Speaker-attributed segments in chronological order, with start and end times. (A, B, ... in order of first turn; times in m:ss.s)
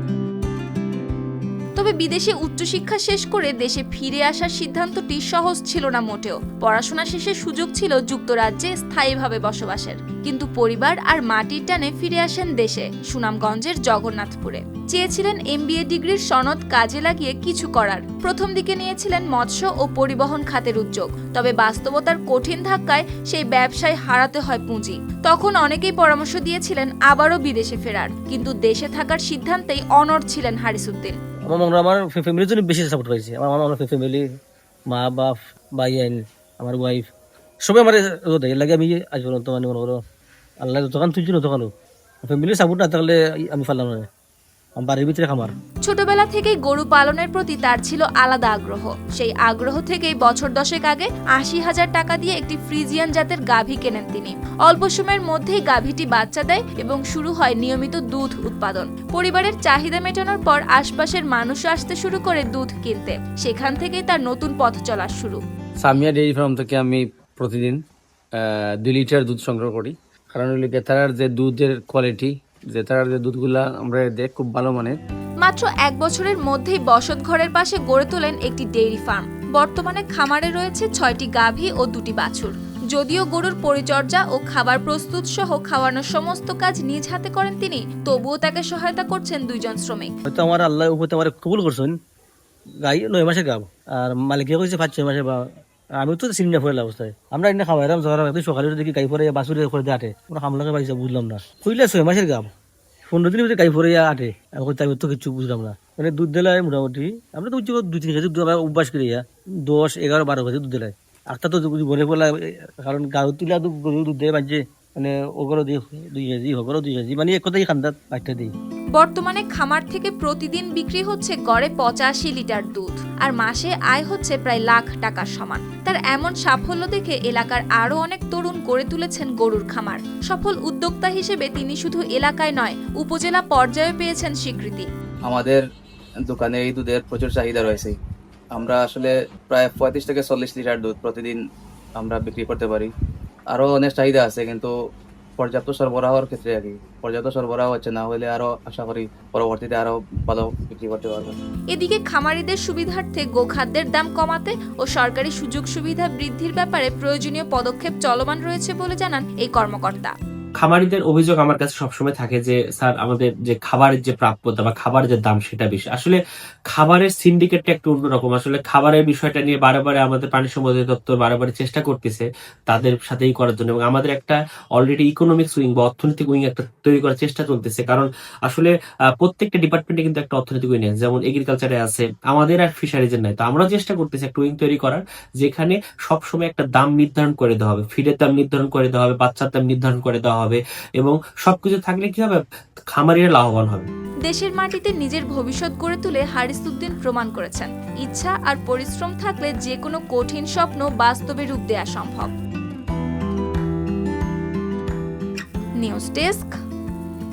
0:01.8-0:31.2 A
0:31.5-0:34.2 B
0:34.9-0:37.1 B
0:37.7-0:40.0 B
0:40.6-0:41.7 B
0:42.2-0:44.1 B
0:44.8-0:45.5 B
0:45.8-1:05.4 A
1:05.8-1:07.8 C
1:08.8-1:15.0 C
1:15.4-1:30.1 A
1:30.3-1:31.9 B
1:32.8-1:35.4 B
1:36.0-1:42.5 B
1:43.1-1:58.5 B
1:59.0-2:14.9 A
2:15.3-2:15.6 D
2:16.3-2:17.9 D
2:18.6-2:21.4 D
2:22.0-2:22.9 D
2:23.5-2:24.7 D
2:25.4-2:31.3 D
2:31.7-2:40.1 A
2:40.6-2:46.2 E
2:46.7-3:12.4 E
3:12.9-3:13.9 E
3:14.3-3:22.3 A
3:25.8-3:26.5 A